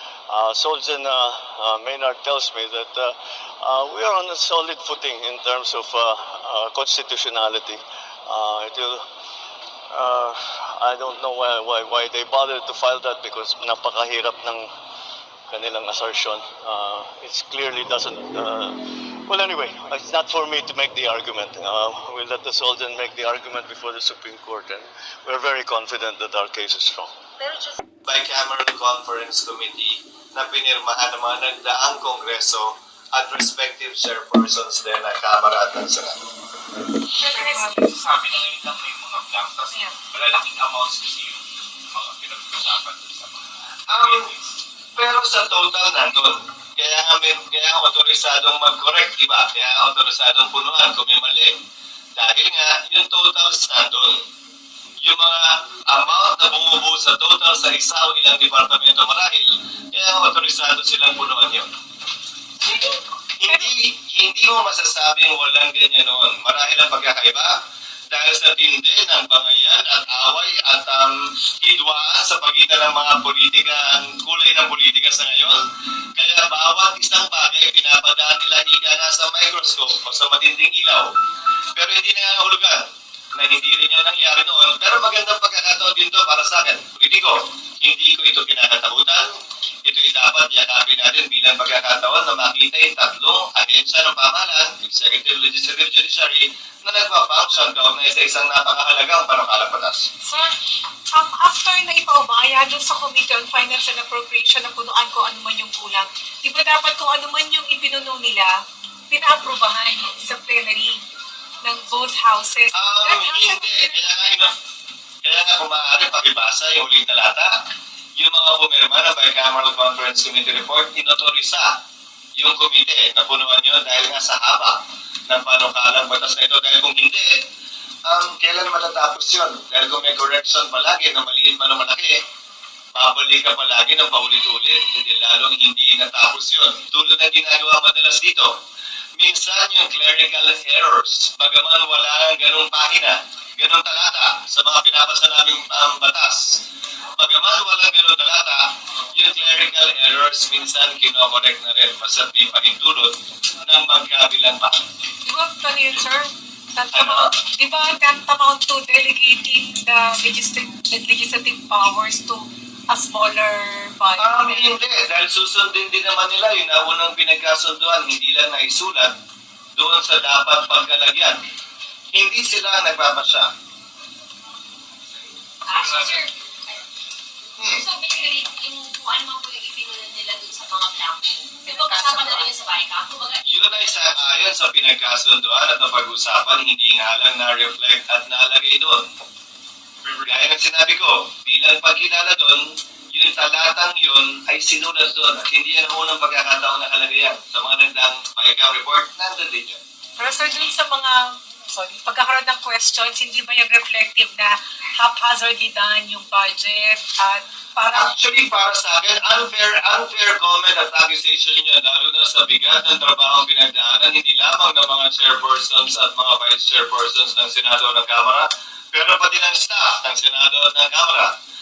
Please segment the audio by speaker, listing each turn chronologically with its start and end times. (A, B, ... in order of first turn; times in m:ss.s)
0:00.3-0:09.0 A
0:09.9-0:14.7 A
0:15.5-0:27.1 A
0:28.0-0:36.2 B
0:37.2-0:38.0 C
0:37.4-0:44.3 D
0:43.9-0:44.3 B
0:44.9-0:51.5 B
0:52.2-0:54.2 B
0:55.0-1:01.7 B
1:02.6-1:03.0 C
1:03.4-1:07.5 B
1:08.1-1:15.6 B
1:16.2-1:21.1 B
1:21.7-1:29.3 B
1:29.8-1:40.1 B
1:40.2-1:40.5 C
1:41.1-1:48.5 C
1:49.1-1:51.0 C
1:51.6-1:54.5 C
1:52.7-1:54.5 B
1:55.2-1:57.5 B
1:58.2-2:01.7 B
2:02.4-2:04.8 B
2:05.3-2:07.3 B
2:08.1-2:12.1 B
2:12.9-2:18.5 B
2:19.2-2:26.6 B
2:27.2-2:28.6 B
2:29.1-2:34.8 B
2:35.2-2:44.8 C
2:36.9-2:37.3 B
2:44.2-2:49.1 B
2:49.7-2:51.4 B
2:52.1-2:53.5 B
2:55.7-2:56.3 E
2:57.6-2:57.8 B
2:57.7-3:03.9 E
3:03.4-3:09.0 B
3:10.2-3:19.8 B
3:20.2-3:28.1 C
3:27.9-3:41.3 B